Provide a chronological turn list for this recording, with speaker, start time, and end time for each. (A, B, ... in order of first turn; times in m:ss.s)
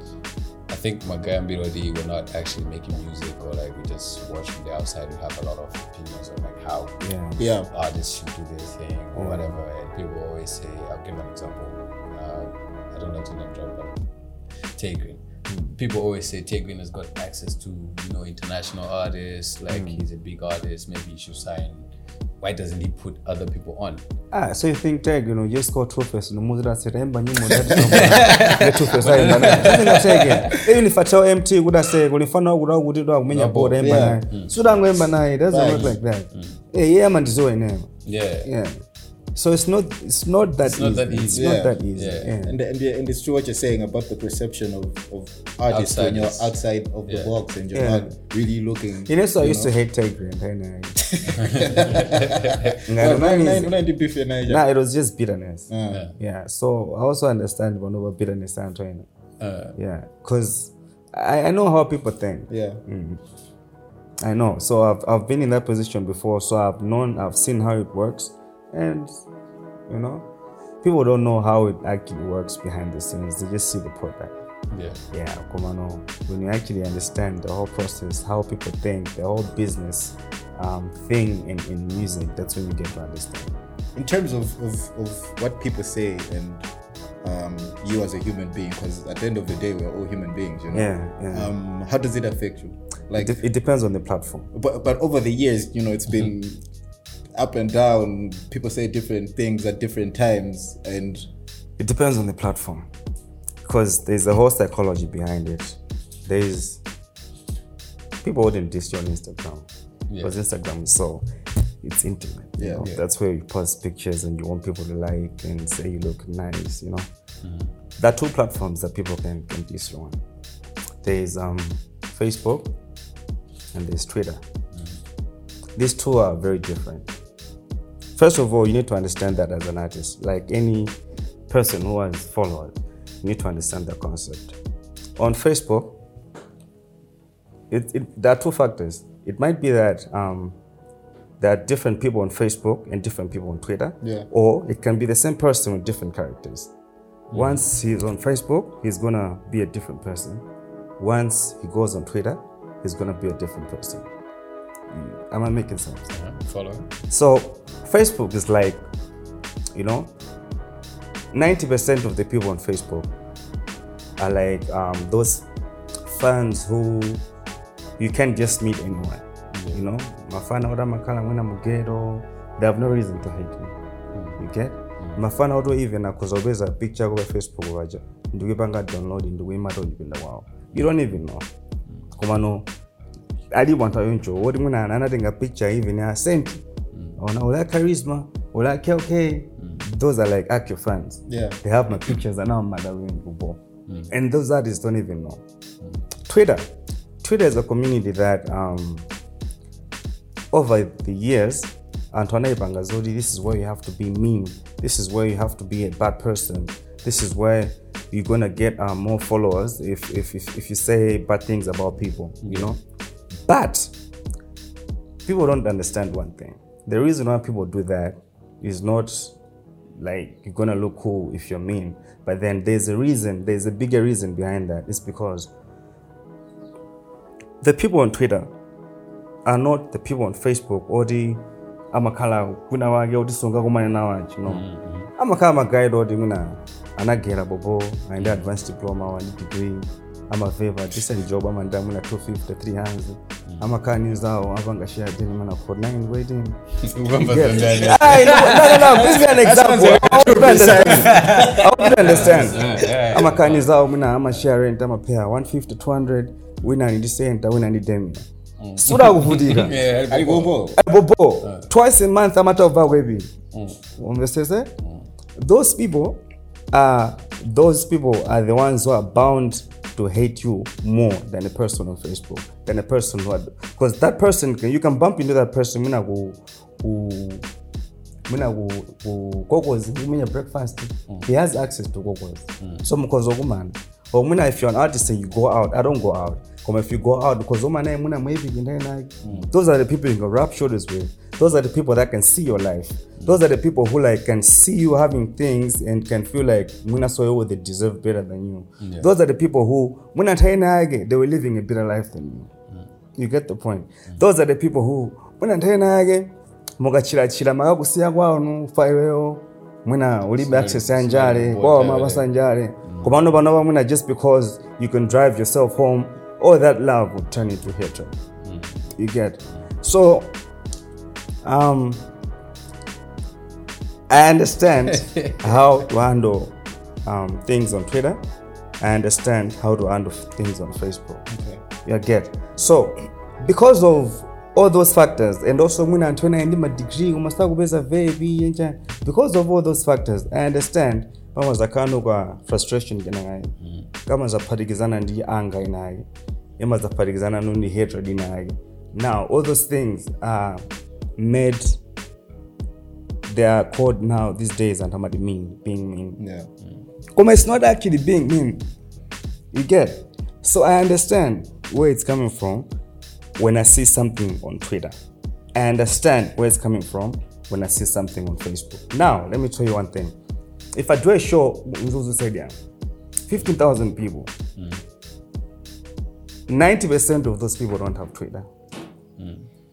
0:00.7-0:07.0 A
0:07.0-0:07.4 B
0:07.4-0:07.7 C
0:07.7-0:14.0 A
0:09.1-0:09.6 B
0:14.7-0:15.2 A
0:15.5-0:15.8 B
0:15.7-0:21.9 A
0:19.7-0:20.0 B
0:22.4-0:24.0 A
0:24.3-0:38.8 B
0:27.7-0:30.7 A
0:33.3-0:34.6 A
0:33.8-0:34.2 C
0:35.5-0:36.0 C
0:35.7-0:36.6 A
0:38.0-0:38.5 A
0:39.3-0:42.6 B
0:40.6-0:42.4 A
0:41.3-0:41.8 C
0:42.4-0:49.7 C
0:45.7-0:46.5 A
0:47.1-0:47.3 A
0:47.7-0:48.1 B
0:49.1-0:51.1 B
0:51.0-0:54.6 C
0:51.3-0:52.8 A
0:52.9-0:53.7 B
0:54.4-0:59.1 B
0:55.7-0:56.0 C
0:55.9-0:56.2 A
0:59.4-0:59.8 A
0:59.8-1:03.2 B
1:02.5-1:02.8 C
1:04.2-1:09.2 B
1:09.9-1:10.3 B
1:10.8-1:14.3 B
1:14.7-1:15.0 A
1:15.1-1:23.5 B
1:24.0-1:26.6 C
1:27.2-1:33.4 C
1:30.7-1:31.5 B
1:33.1-1:34.5 B
1:34.5-1:36.6 C
1:37.3-1:41.3 C
1:41.8-1:42.9 B
1:43.6-1:46.8 B
1:48.2-1:49.7 B
1:50.1-1:50.4 A
1:50.2-1:51.2 B
1:51.8-1:57.1 B
1:52.6-1:52.8 C
1:52.8-1:53.0 A
1:57.4-1:57.7 A
1:58.0-2:00.2 B
2:01.0-2:02.7 B
2:03.7-2:04.4 B
2:04.7-2:05.0 A
2:05.8-2:07.1 B
2:08.2-2:11.0 B
2:11.5-2:14.6 B
2:15.2-2:16.0 B
2:17.7-2:20.6 B
2:21.4-2:26.7 B
2:24.0-2:24.3 C
2:27.3-2:27.7 A
2:27.3-2:30.4 B
2:31.0-2:34.1 B
2:34.9-2:36.1 B
2:36.1-2:36.9 A
2:37.1-2:38.8 B
2:39.7-2:40.1 B
2:41.3-2:43.1 B
2:44.2-2:45.5 B
2:46.1-2:47.2 B
2:48.0-2:53.7 B
2:49.5-2:49.8 A
2:54.1-2:54.4 A
2:54.4-3:01.5 B
2:55.0-2:55.2 A
3:02.1-3:02.7 B
3:03.5-3:06.6 B
3:06.9-3:07.2 A
3:07.2-3:15.4 B
3:11.3-3:11.6 C
3:16.2-3:19.1 B
3:20.5-3:32.8 B
3:32.4-3:32.7 A
3:33.4-3:33.9 B
3:35.2-3:39.3 B
3:40.0-3:45.5 B
3:47.6-3:48.5 B
3:49.4-3:54.6 B
3:54.4-3:55.1 A
3:55.2-4:06.6 B
3:58.2-3:58.5 A
4:06.8-4:09.3 A
4:07.2-4:18.2 B
4:09.2-4:12.7 C
4:10.8-4:13.7 A
4:18.6-4:20.6 A
4:18.8-4:19.8 B
4:20.1-4:20.8 C
4:20.8-4:23.3 B
4:21.4-4:21.7 A
4:23.5-4:23.8 A
4:24.0-4:24.7 B
4:24.8-4:25.1 A
4:25.4-4:26.2 B
4:26.7-4:37.4 B
4:38.3-5:02.5 B
4:42.6-4:42.9 A
4:49.2-4:49.5 A
4:58.8-4:59.1 A
5:03.2-5:18.2 B
5:10.4-5:12.3 A
5:12.8-5:13.2 A
5:18.4-5:18.9 A
5:18.9-5:20.4 B
5:21.4-5:22.1 B
5:24.1-5:28.2 B
5:25.1-5:25.5 A
5:28.8-5:31.2 B
5:31.3-5:31.6 C
5:31.8-5:43.5 B
5:43.6-5:43.9 A
5:44.0-5:46.1 B
5:46.6-5:50.6 B
5:51.2-5:51.8 B
5:53.3-5:56.2 B
5:56.2-5:56.5 C
5:57.1-5:58.7 B
5:59.5-6:02.7 B
6:03.4-6:05.0 B
6:05.5-6:10.2 B
6:10.7-6:12.6 B
6:13.3-6:14.3 B
6:14.6-6:14.8 A
6:16.5-6:18.5 B
6:19.2-6:19.5 A